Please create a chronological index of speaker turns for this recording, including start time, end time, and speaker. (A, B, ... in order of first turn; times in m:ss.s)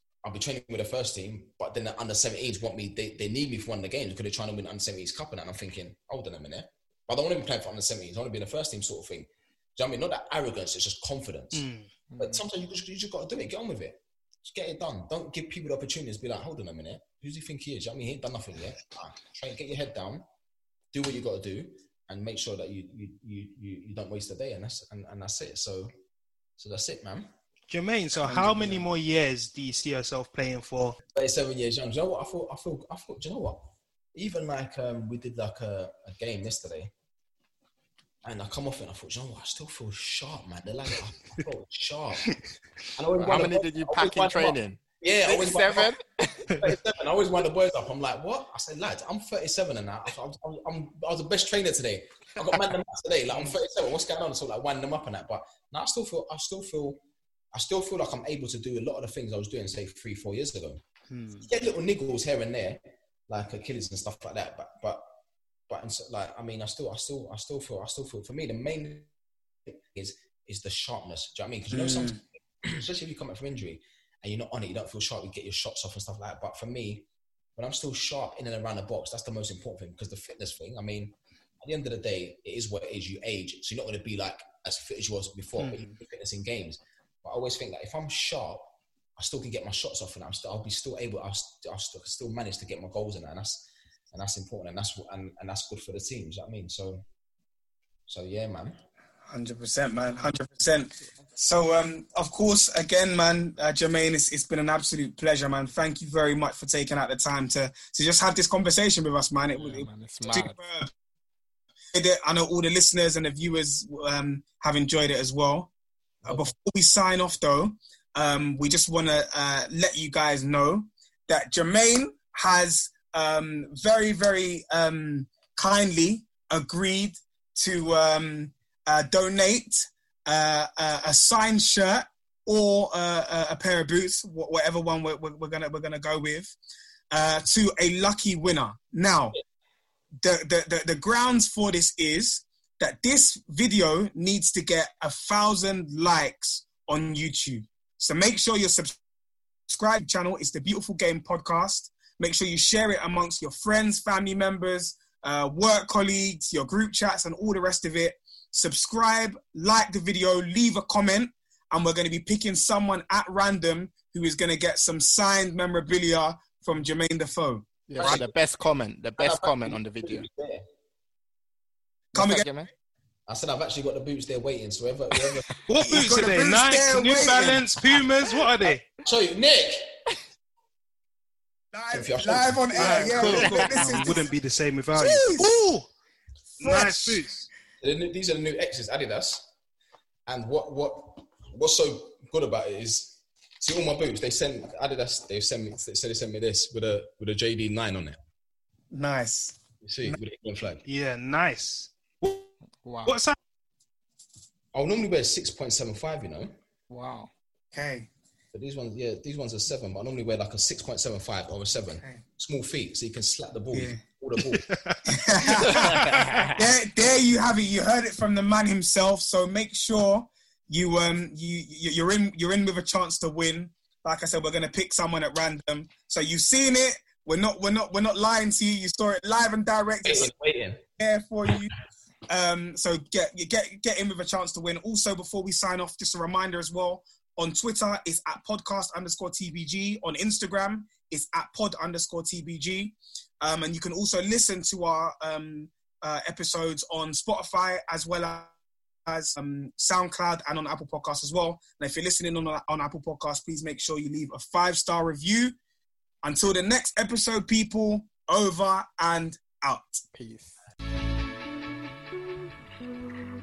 0:00.2-0:11.7 A
0:11.5-0:11.9 B
0:12.1-0:12.4 C
0:12.2-0:20.2 A
0:20.9-0:25.9 A
0:26.6-0:27.3 A
0:27.7-0:31.0 B
0:28.2-0:28.8 A
0:31.1-0:36.9 A
0:38.2-0:42.3 A
0:43.0-0:45.9 A
0:43.2-0:46.7 C
0:46.5-0:57.0 A
0:53.3-0:53.6 B
0:57.5-1:00.8 A
1:01.1-1:01.5 B
1:01.4-1:05.0 A
1:05.7-1:09.1 A
1:09.6-1:37.0 A
1:11.7-1:12.2 D
1:25.6-1:25.9 B
1:38.1-1:38.8 A
1:39.3-1:50.9 D
1:49.6-1:50.6 C
1:51.9-1:55.7 D
1:56.2-1:56.5 C
1:56.2-2:16.5 D
2:17.1-2:19.4 D
2:20.2-2:29.0 D
2:29.7-2:48.2 D
2:47.9-2:50.2 C
2:48.0-2:48.2 A
2:49.2-2:50.6 A
2:52.1-2:52.7 C
2:52.1-2:52.5 D
2:53.3-2:55.5 A
2:55.7-2:58.8 B
2:55.8-2:57.7 D
2:59.0-2:59.9 A
3:01.7-3:04.3 D
3:01.9-3:04.0 A
3:02.8-3:05.9 B
3:04.9-3:05.5 D
3:06.6-3:07.5 B
3:06.6-3:07.2 D
3:07.8-3:09.4 A
3:10.3-3:18.2 A
3:18.9-3:20.2 D
3:19.8-3:20.8 A
3:20.8-3:22.5 B
3:22.8-3:23.2 C
3:23.0-3:23.3 B
3:24.7-3:26.5 A
3:26.9-3:27.3 C
3:27.7-3:28.1 D
3:28.5-3:34.7 A
3:33.7-3:34.0 D
3:34.5-3:36.5 B
3:35.0-3:36.0 D
3:36.0-3:36.5 C
3:36.5-3:50.3 D
3:50.0-3:50.8 A
3:51.0-3:51.7 D
3:52.3-4:08.5 D
4:09.1-4:15.6 D
4:16.2-4:20.0 D
4:20.1-4:20.5 C